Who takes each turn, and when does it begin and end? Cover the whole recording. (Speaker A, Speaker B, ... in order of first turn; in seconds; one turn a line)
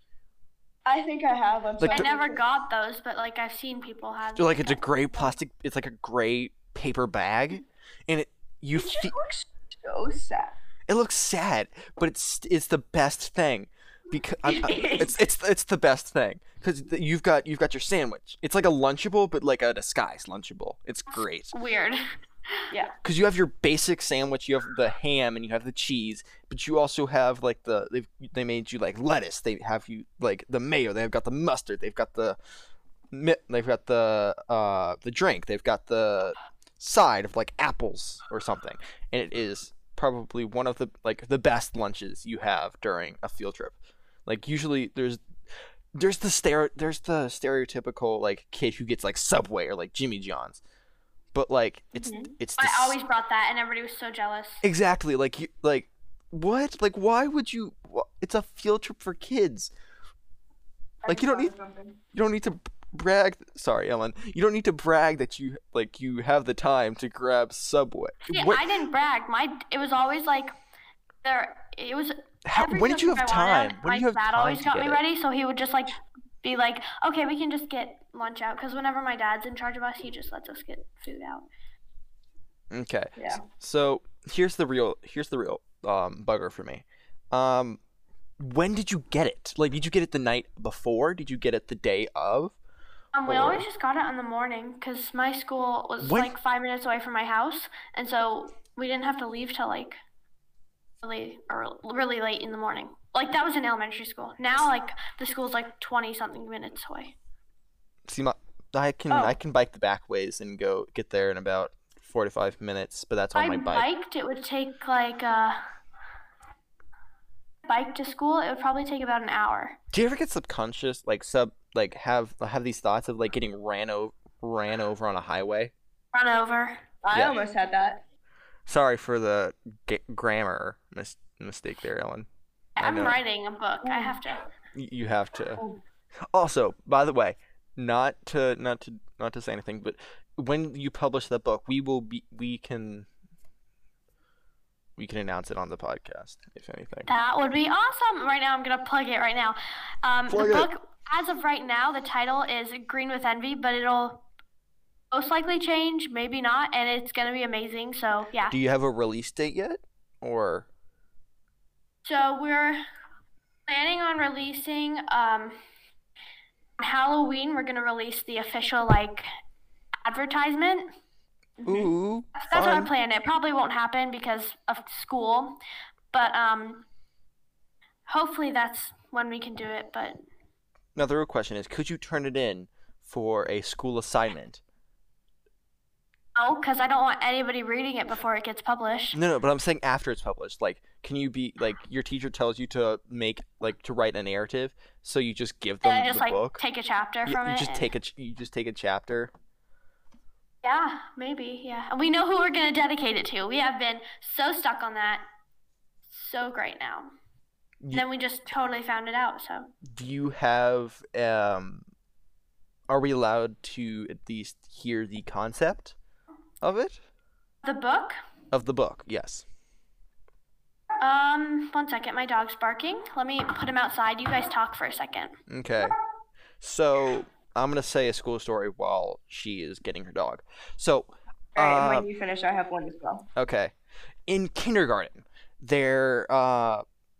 Speaker A: 0.8-2.4
Speaker B: 1.8-2.1
Speaker C: 1.9-5.3
Speaker B: 4.3-9.1
Speaker A: 8.7-10.5
Speaker B: 10.9-21.5
Speaker A: 14.4-15.2
Speaker C: 21.5-22.0
Speaker B: 23.0-32.4
Speaker B: 33.1-45.2
Speaker B: 45.9-50.6
Speaker B: 51.3-53.0
Speaker A: 51.9-52.3
Speaker C: 52.6-54.6
Speaker B: 54.6-59.7
Speaker A: 61.0-62.0
Speaker B: 61.1-61.5
Speaker B: 62.1-68.7
Speaker C: 68.2-70.5
Speaker C: 71.2-81.5
Speaker B: 72.4-75.0
Speaker B: 82.7-87.8
Speaker A: 83.2-83.4
Speaker B: 88.4-92.5
Speaker C: 93.1-100.0
Speaker B: 93.3-93.6
Speaker B: 96.0-96.3
Speaker C: 101.0-107.1
Speaker B: 108.1-113.9
Speaker A: 109.1-109.4
Speaker C: 113.3-115.6
Speaker C: 117.6-119.8
Speaker B: 119.9-125.7
Speaker C: 126.1-126.8
Speaker A: 127.0-128.0
Speaker B: 128.7-132.3
Speaker C: 132.8-134.4
Speaker B: 132.8-133.2
Speaker A: 133.8-134.2
Speaker B: 134.7-135.6
Speaker B: 136.3-143.1
Speaker B: 145.0-147.1
Speaker C: 147.1-154.2
Speaker B: 150.3-150.7
Speaker C: 155.1-158.6
Speaker B: 158.5-160.7
Speaker C: 162.0-162.8
Speaker C: 163.7-165.6
Speaker C: 166.8-169.3
Speaker C: 170.0-170.9
Speaker C: 171.6-175.6
Speaker B: 171.7-172.9
Speaker C: 176.1-176.8
Speaker C: 178.1-180.2
Speaker B: 180.9-184.6
Speaker C: 186.3-189.2
Speaker B: 189.1-196.6
Speaker C: 195.8-197.9
Speaker B: 197.2-199.3
Speaker C: 200.6-205.2
Speaker C: 206.1-207.1
Speaker C: 207.9-209.7
Speaker B: 209.8-211.8
Speaker B: 212.9-215.9
Speaker B: 216.6-217.0
Speaker C: 217.6-218.2
Speaker B: 218.5-219.4
Speaker C: 221.0-225.4
Speaker B: 225.5-225.9
Speaker B: 226.6-232.1
Speaker A: 231.5-233.2
Speaker B: 233.3-233.7
Speaker B: 234.3-236.8